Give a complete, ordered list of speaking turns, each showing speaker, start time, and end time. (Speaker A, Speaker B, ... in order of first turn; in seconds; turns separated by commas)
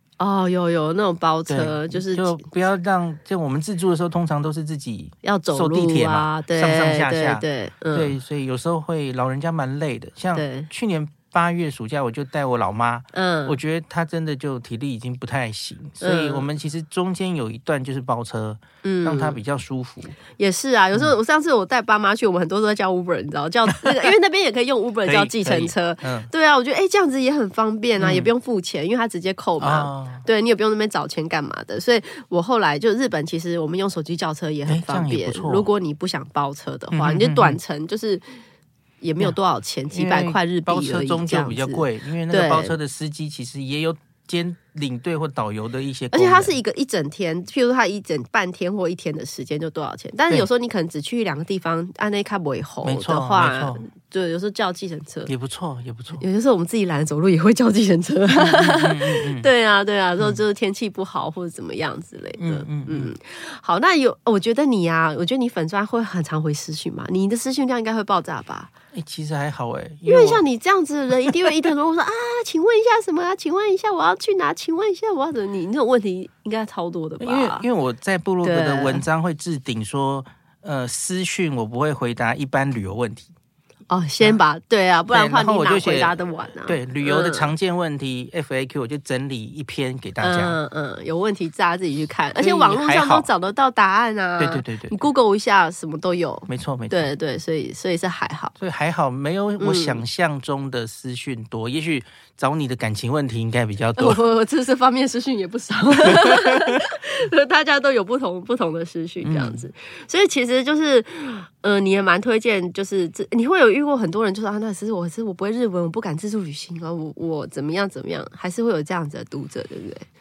Speaker A: 0.2-2.4, Speaker B: 1.5-20.2, Speaker A: 5.2-8.2, Speaker A: 10.3-10.7, Speaker A: 13.1-13.6, Speaker A: 16.0-16.4, Speaker A: 18.8-19.4, Speaker A: 20.4-38.2, Speaker B: 23.7-24.1, Speaker B: 25.0-26.3, Speaker B: 28.0-28.3, Speaker B: 29.6-30.2, Speaker B: 34.6-35.7, Speaker B: 36.9-37.6, Speaker A: 39.0-42.8, Speaker B: 39.9-46.5, Speaker A: 46.1-55.3, Speaker B: 52.8-53.9, Speaker B: 55.3-56.2, Speaker A: 56.2-68.7, Speaker B: 58.3-59.5, Speaker B: 62.4-63.1, Speaker B: 68.9-70.4, Speaker A: 70.0-77.7, Speaker B: 77.2-83.3, Speaker A: 78.4-79.0, Speaker A: 83.9-87.5, Speaker B: 85.1-90.6, Speaker A: 90.2-98.5, Speaker B: 92.3-93.3, Speaker B: 94.4-95.0, Speaker B: 96.5-97.1, Speaker B: 98.6-104.2, Speaker A: 99.6-100.0, Speaker A: 104.0-120.0, Speaker B: 106.1-106.7, Speaker B: 109.2-109.7